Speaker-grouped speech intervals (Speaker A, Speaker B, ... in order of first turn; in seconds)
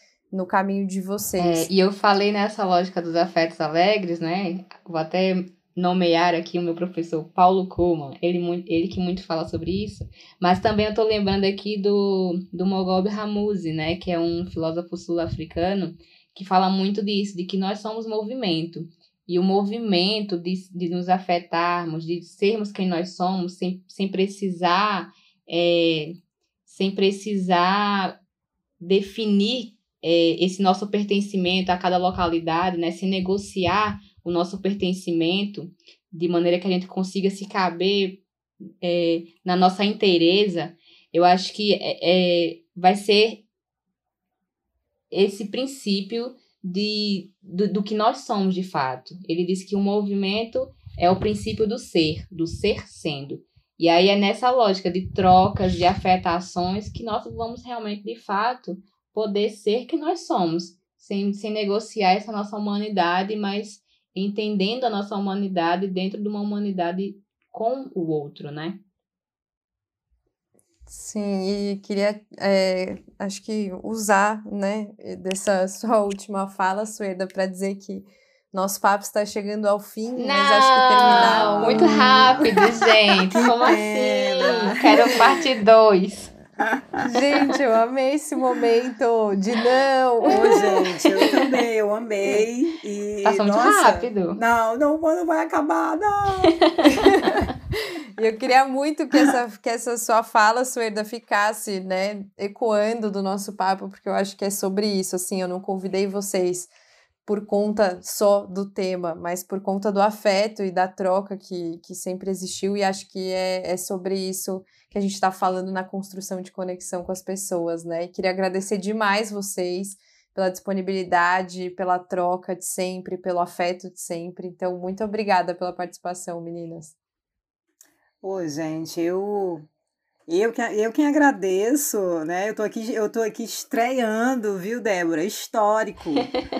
Speaker A: 0.3-1.7, 70.9-82.6, 84.8-85.1, 87.0-90.8, 98.2-106.7, 107.2-126.9
Speaker B: 1.4-28.2, 28.8-38.2, 38.8-43.4, 45.1-68.8, 80.2-86.3, 93.2-94.4, 96.6-96.9
Speaker C: 81.0-82.6, 83.6-85.2, 90.3-96.6, 128.2-129.6, 130.3-136.3